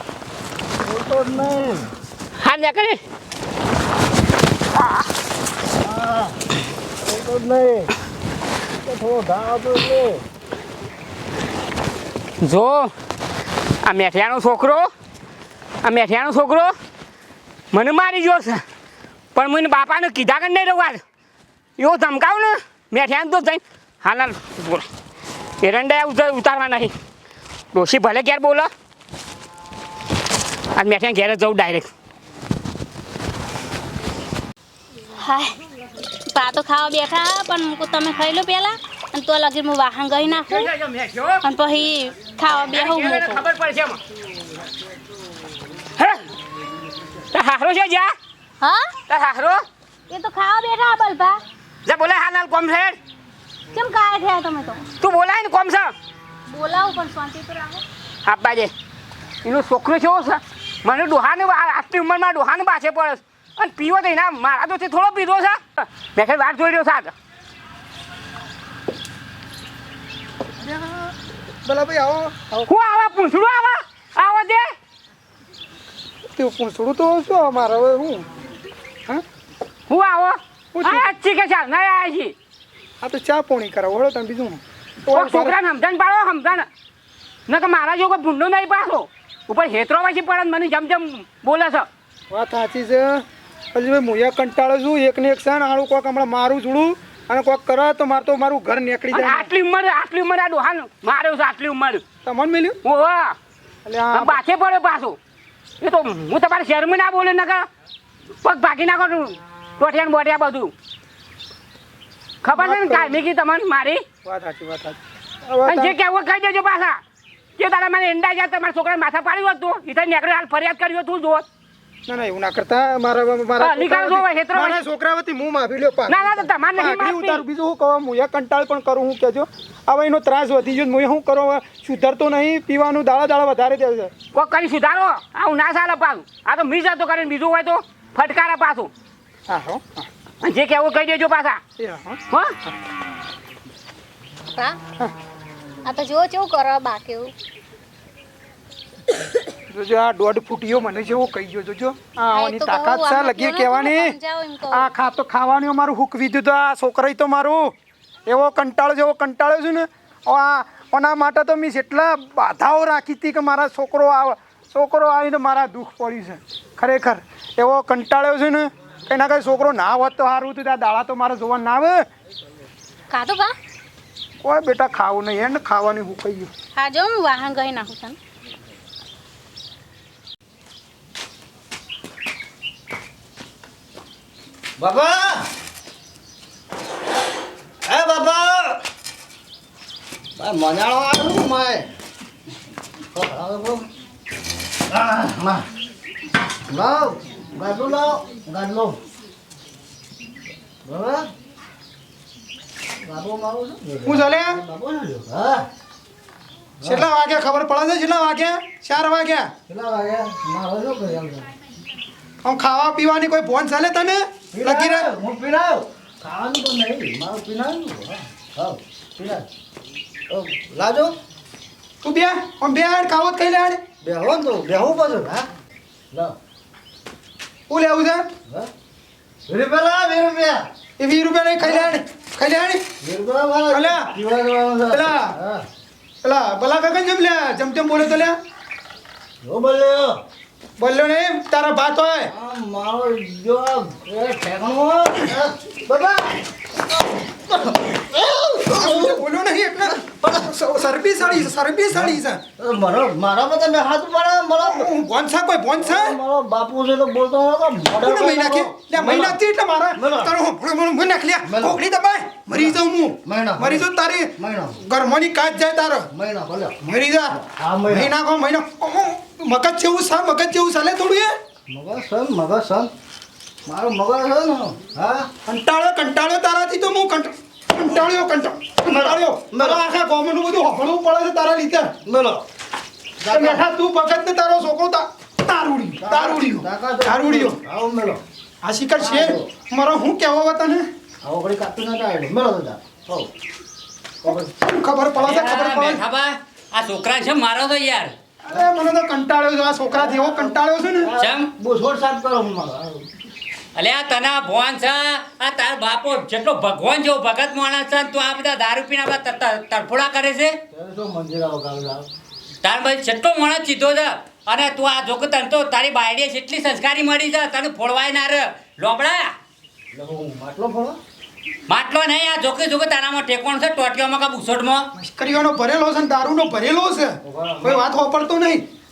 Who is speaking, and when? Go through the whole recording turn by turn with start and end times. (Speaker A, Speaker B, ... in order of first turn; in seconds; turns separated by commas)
Speaker A: 0.8-1.9, Speaker B: 2.4-3.0, Speaker A: 5.8-6.4, Speaker A: 7.0-7.9, Speaker A: 8.8-10.2, Speaker B: 12.4-12.9, Speaker B: 13.8-14.9, Speaker B: 15.8-16.8, Speaker B: 17.7-18.6, Speaker B: 19.4-21.0, Speaker B: 21.8-24.9, Speaker B: 25.6-26.9, Speaker B: 27.7-28.7, Speaker B: 30.8-31.9, Speaker C: 35.2-35.5, Speaker C: 36.3-40.7, Speaker D: 40.3-41.4, Speaker C: 41.4-43.5, Speaker D: 42.4-44.0, Speaker B: 46.0-46.2, Speaker B: 47.3-48.1, Speaker C: 48.6-48.9, Speaker B: 49.1-49.6, Speaker C: 50.1-51.4, Speaker B: 51.9-53.0, Speaker C: 53.7-54.9, Speaker B: 55.0-55.9, Speaker C: 56.5-57.8, Speaker B: 58.2-58.7, Speaker B: 59.4-67.1, Speaker E: 70.6-72.7, Speaker B: 72.7-74.7, Speaker E: 76.3-78.3, Speaker B: 79.9-82.3, Speaker E: 80.7-81.1, Speaker E: 83.0-85.6, Speaker B: 85.2-86.7, Speaker B: 87.5-91.9, Speaker E: 92.3-93.2, Speaker E: 93.7-99.5, Speaker B: 99.1-102.0, Speaker E: 102.2-102.8, Speaker B: 102.8-103.4, Speaker E: 103.8-104.4, Speaker B: 104.1-105.2, Speaker B: 105.8-107.7, Speaker B: 108.4-110.7, Speaker B: 112.4-114.0, Speaker E: 112.5-113.2, Speaker E: 114.2-116.0, Speaker B: 115.7-117.0, Speaker B: 117.6-121.5, Speaker E: 122.1-134.1, Speaker B: 123.6-124.8, Speaker B: 126.1-127.4, Speaker B: 134.3-138.9, Speaker E: 139.5-140.1, Speaker B: 140.4-141.6, Speaker E: 141.8-142.7, Speaker B: 142.3-142.6, Speaker C: 145.9-147.3, Speaker E: 149.7-154.2, Speaker C: 152.3-154.9, Speaker E: 154.7-157.7, Speaker E: 158.3-172.0, Speaker C: 173.1-173.5, Speaker E: 174.4-176.5, Speaker C: 176.8-178.2, Speaker A: 184.8-185.5, Speaker A: 187.9-188.8, Speaker A: 190.4-191.9, Speaker A: 193.1-193.9, Speaker A: 194.9-195.7, Speaker A: 196.7-199.0, Speaker A: 200.8-201.3, Speaker A: 203.0-205.7, Speaker E: 204.1-204.6, Speaker A: 206.8-207.1, Speaker E: 206.8-209.5, Speaker A: 209.7-211.5, Speaker E: 212.4-215.1, Speaker A: 214.5-219.5, Speaker A: 220.3-221.2, Speaker E: 222.0-223.8, Speaker A: 224.0-225.5, Speaker A: 226.1-226.4, Speaker E: 227.7-228.3, Speaker A: 229.5-230.7, Speaker E: 231.0-232.9, Speaker A: 231.6-231.9, Speaker A: 233.0-235.7, Speaker E: 233.7-234.1, Speaker E: 234.9-235.3, Speaker E: 236.2-238.4, Speaker A: 239.4-240.2, Speaker E: 240.8-242.3, Speaker A: 242.3-246.3, Speaker A: 246.9-250.6, Speaker E: 248.7-252.4, Speaker A: 251.3-254.9, Speaker E: 254.6-256.2, Speaker A: 255.8-259.4, Speaker E: 258.0-266.1, Speaker A: 260.0-260.4, Speaker A: 261.4-261.8, Speaker A: 262.5-264.8, Speaker A: 266.1-268.1, Speaker E: 266.8-267.4, Speaker E: 267.9-271.3, Speaker A: 271.7-272.9, Speaker A: 273.7-275.3, Speaker E: 275.5-281.9, Speaker A: 278.9-279.8, Speaker A: 282.1-282.4, Speaker A: 283.2-283.7, Speaker E: 283.3-287.6, Speaker A: 286.0-288.2, Speaker E: 288.6-290.9, Speaker A: 289.0-289.5, Speaker A: 291.2-293.3, Speaker E: 294.2-296.0, Speaker D: 295.1-298.1, Speaker E: 298.4-301.1, Speaker A: 299.9-303.1, Speaker D: 301.2-301.5, Speaker D: 303.8-310.6, Speaker A: 310.7-312.1, Speaker D: 312.6-319.3, Speaker A: 319.9-321.0, Speaker D: 321.7-324.9, Speaker E: 324.9-328.6, Speaker A: 327.2-327.9